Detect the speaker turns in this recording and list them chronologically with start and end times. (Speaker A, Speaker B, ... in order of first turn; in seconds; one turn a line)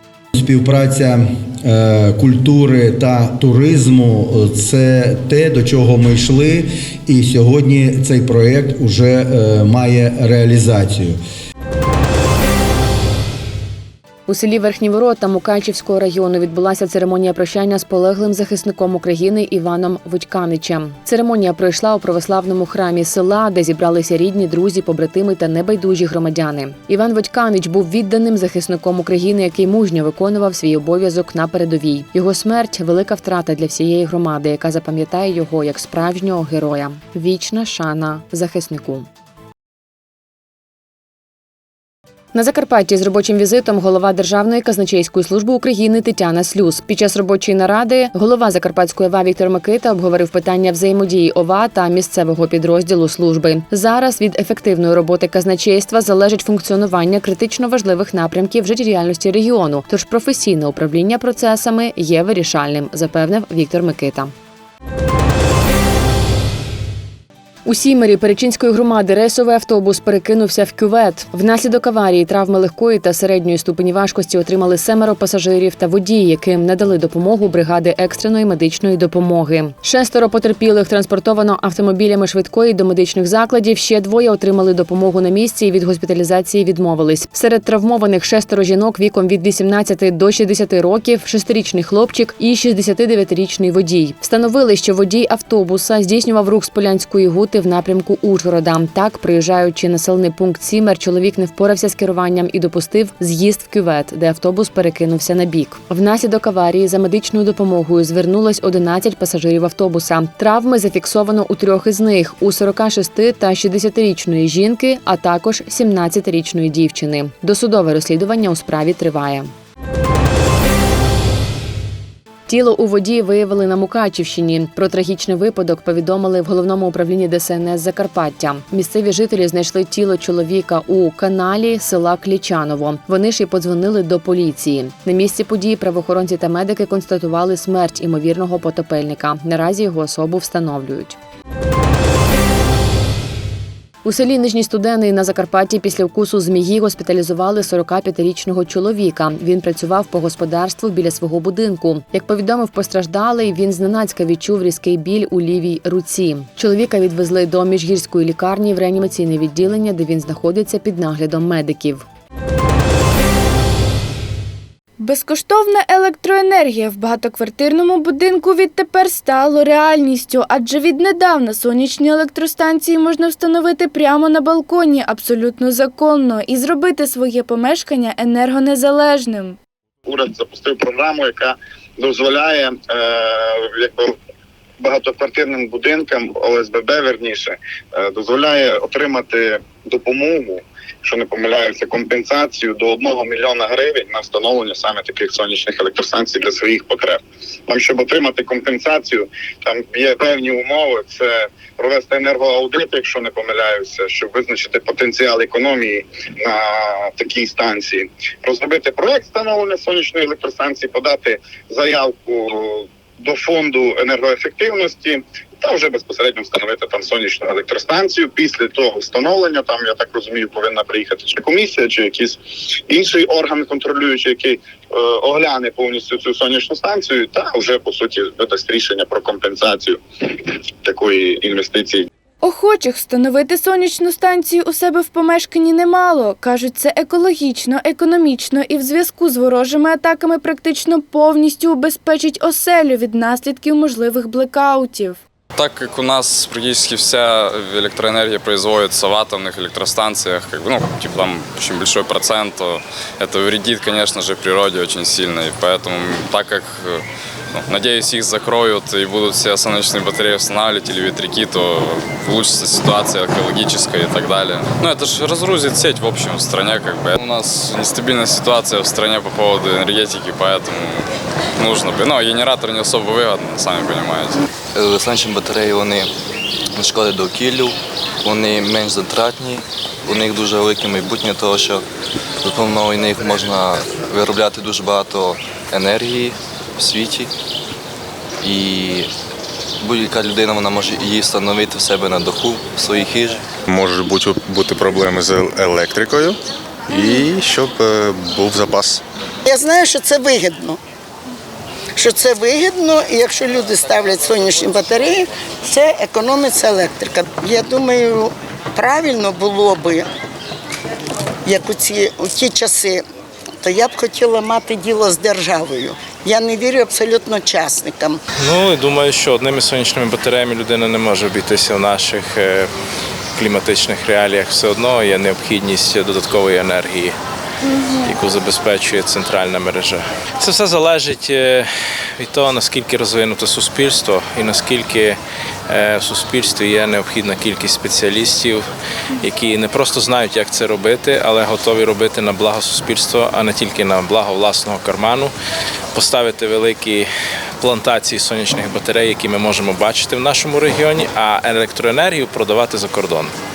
Speaker A: 0.3-11.2
Speaker B: 14.3-39.1
Speaker B: 42.3-64.3
Speaker B: 67.7-119.5
Speaker B: 122.5-141.2
Speaker B: 144.0-162.0
Speaker C: 165.0-179.6
Speaker D: 180.1-184.2
Speaker D: 184.8-232.1
Speaker C: 232.4-245.2
Speaker E: 245.5-271.1
Speaker E: 271.6-274.4
Speaker F: 274.7-276.1
Speaker F: 276.7-281.8
Speaker F: 282.4-287.3
Speaker F: 288.4-289.1
Speaker F: 289.8-293.4
Speaker G: 293.7-296.3
Speaker H: 294.5-295.3
Speaker G: 296.9-299.0
Speaker H: 298.4-298.6
Speaker I: 299.4-300.8
Speaker I: 301.9-310.1
Speaker I: 311.4-313.0
Speaker I: 313.6-318.2
Speaker H: 318.4-322.7
Speaker H: 323.4-327.1
Speaker H: 328.1-338.6
Speaker H: 339.2-345.3
Speaker H: 345.9-347.1
Speaker H: 347.6-353.3